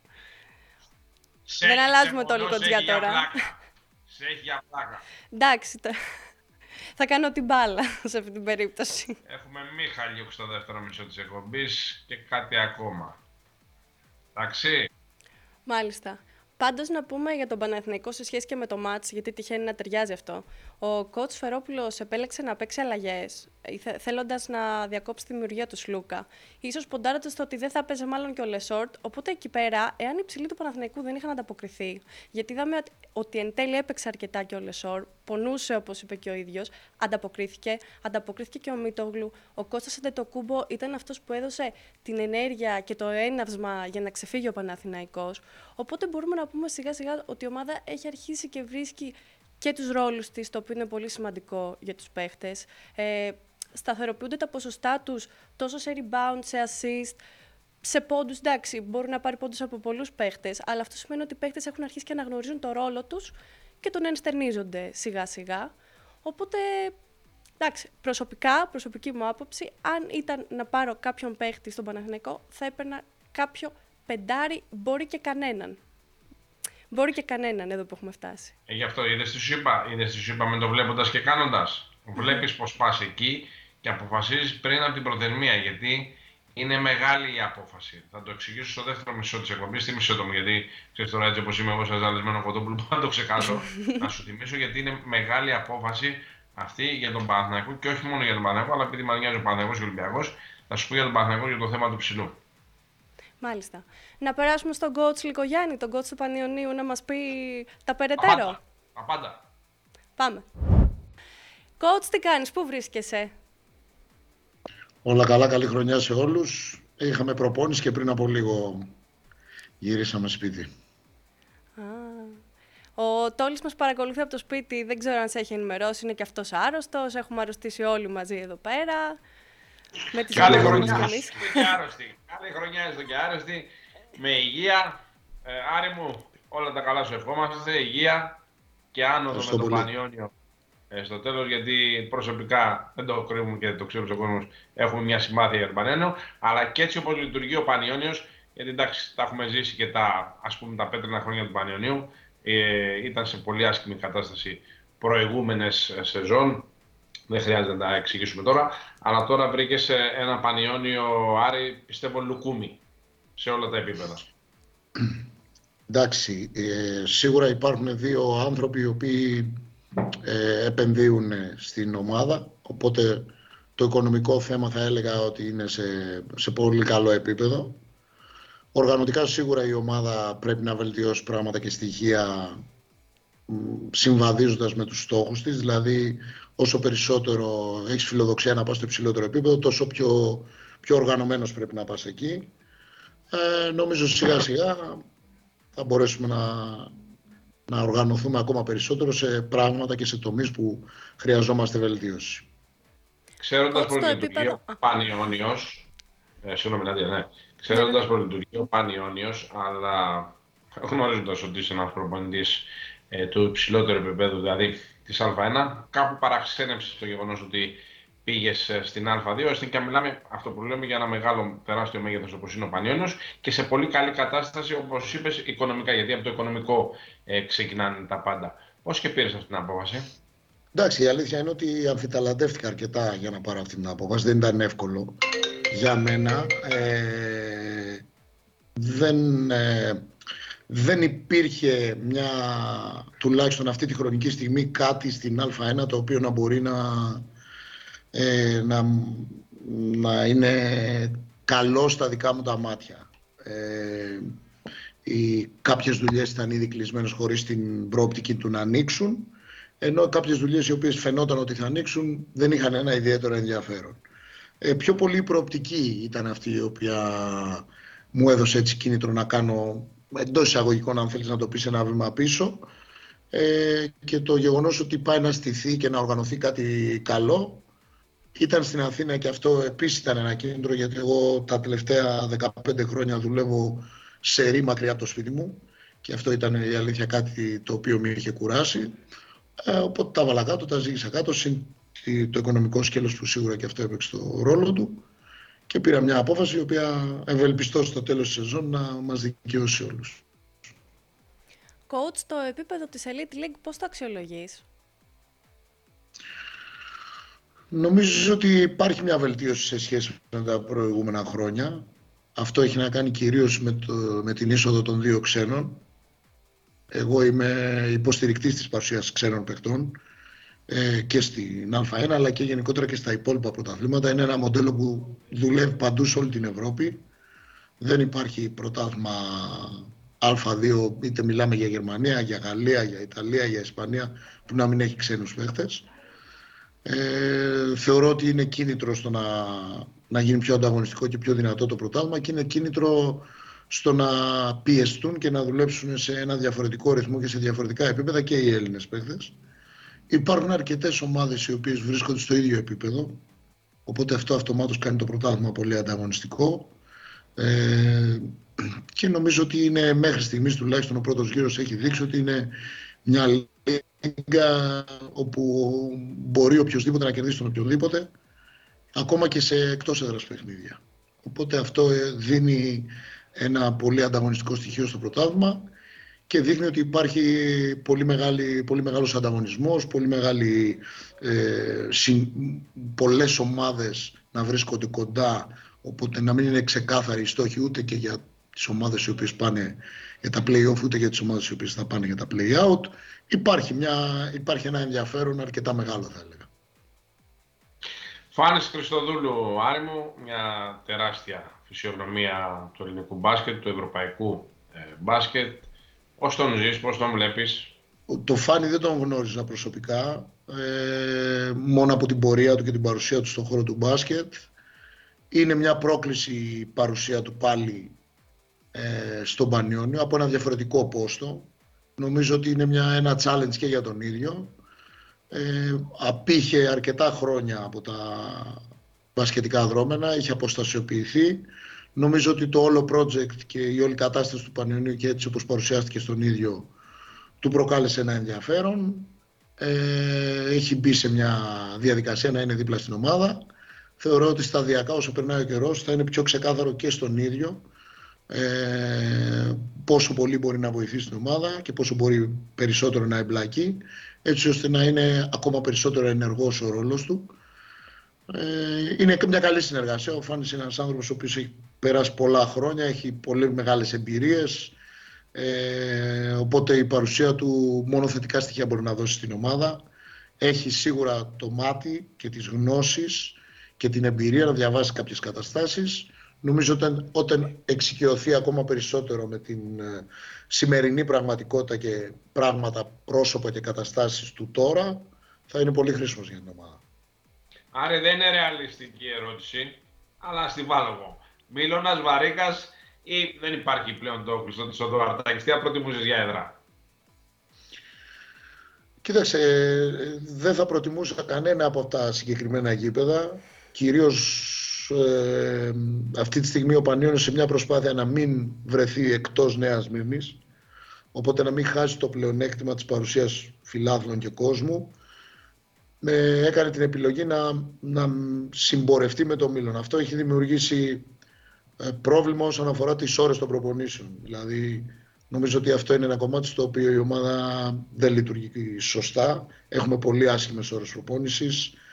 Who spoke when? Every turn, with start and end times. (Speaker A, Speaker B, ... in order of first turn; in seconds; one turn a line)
Speaker A: 1.5-5.0
Speaker B: 1.6-3.4
Speaker B: 5.3-6.0
Speaker B: 7.0-9.2
Speaker A: 9.2-13.2
Speaker A: 14.3-14.9
Speaker B: 15.7-57.2
Speaker B: 57.8-65.7
Speaker B: 66.2-67.0
Speaker B: 67.6-75.8
Speaker B: 76.9-78.5
Speaker A: 78.7-102.4
Speaker B: 82.2-82.4
Speaker B: 103.4-108.6
Speaker A: 108.2-109.4
Speaker B: 110.2-110.5
Speaker B: 111.8-113.3
Speaker C: 115.0-118.9
Speaker C: 119.8-120.7
Speaker B: 121.8-122.4
Speaker B: 123.0-129.2
Speaker B: 130.1-131.7
Speaker A: 130.3-138.4
Speaker C: 130.3-131.4
Speaker A: 138.9-140.3
Speaker C: 139.3-139.9
Speaker A: 140.9-156.7
Speaker A: 157.3-162.8
Speaker A: 163.4-164.3
Speaker C: 165.9-169.6
Speaker C: 170.2-177.8
Speaker C: 178.7-182.6
Speaker C: 183.5-192.5
Speaker C: 193.3-195.0
Speaker C: 195.8-196.9
Speaker C: 197.7-202.5
Speaker A: 203.4-205.9
Speaker B: 203.7-204.8
Speaker A: 206.4-230.1
Speaker B: 207.7-208.1
Speaker C: 230.7-238.0
Speaker C: 238.8-240.0
Speaker C: 240.7-247.3
Speaker C: 248.1-254.2
Speaker C: 255.0-264.0
Speaker C: 264.6-272.7
Speaker C: 273.3-277.7
Speaker C: 278.4-289.0
Speaker C: 289.6-295.1
Speaker C: 295.7-300.2
Speaker B: 301.9-304.6
Speaker C: 307.7-315.8
Speaker C: 316.9-320.0
Speaker C: 320.7-327.0
Speaker C: 327.8-335.9
Speaker C: 336.9-349.4
Speaker C: 350.1-353.2
Speaker C: 353.9-356.8
Speaker C: 357.4-368.1
Speaker C: 368.9-375.7
Speaker C: 376.3-396.5
Speaker A: 398.3-407.7
Speaker C: 408.1-414.5
Speaker C: 415.3-418.0
Speaker C: 418.7-424.6
Speaker C: 425.3-428.6
Speaker C: 429.1-436.7
Speaker C: 437.4-443.4
Speaker C: 444.0-447.7
Speaker C: 448.3-457.4
Speaker C: 458.3-464.8
Speaker C: 465.3-469.9
Speaker C: 470.4-486.8
Speaker A: 487.7-496.6
Speaker C: 499.0-510.4
Speaker C: 511.1-515.0
Speaker C: 516.0-521.1
Speaker C: 521.8-531.8